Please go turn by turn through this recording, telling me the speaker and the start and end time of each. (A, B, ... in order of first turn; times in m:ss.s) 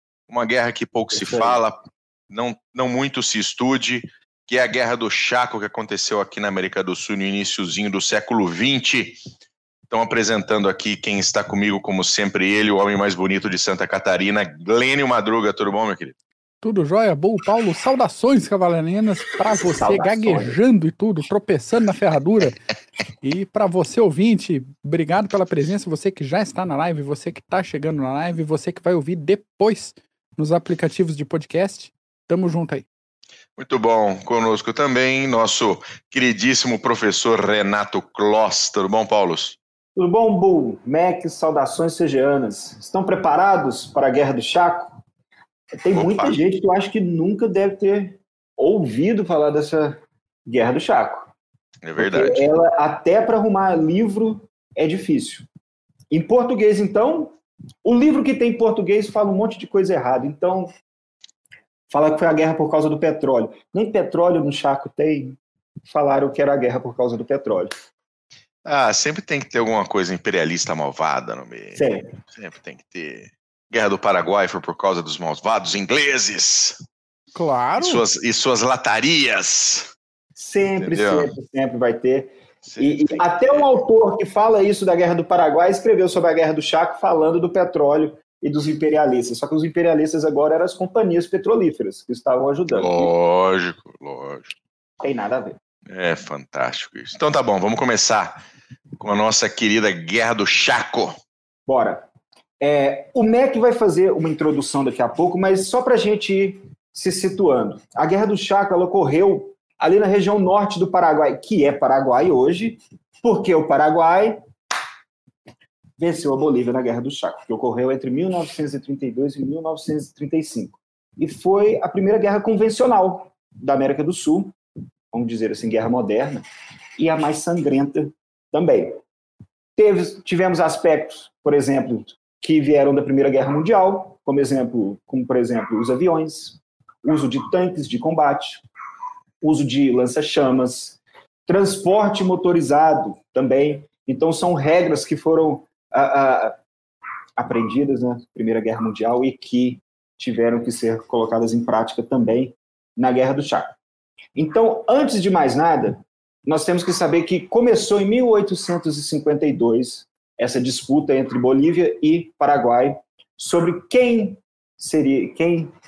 0:00.3-0:09.2 A
0:01.1-0:01.6 B
0:09.9-0:16.2 A
0:16.6-0:22.6 C
0:19.8-0:20.6 B
0:23.2-0:32.9 C
0:33.6-0:39.6 A
0:40.0-0:45.0 B
0:45.8-0:51.3 B
0:45.9-0:46.4 A
0:51.8-0:52.5 A
0:52.0-0:55.5 B
0:56.1-1:00.7 B
1:01.9-1:07.7 B
1:08.6-1:16.8 A
1:11.8-1:12.1 B
1:17.4-1:18.0 C
1:17.8-1:19.9 A
1:20.4-1:33.1 B
1:20.8-1:21.3 A
1:22.7-1:23.8 A
1:32.7-1:34.6 A
1:35.0-1:35.6 B
1:35.9-1:38.4 A
1:39.0-1:41.2 A
1:41.7-1:42.1 B
1:42.6-1:54.4 B
1:56.0-2:04.5 B
2:05.1-2:06.4 B
2:07.0-2:09.0 B
2:09.8-2:18.6 B
2:19.4-2:26.6 B
2:27.4-2:33.8 B
2:34.4-2:45.7 B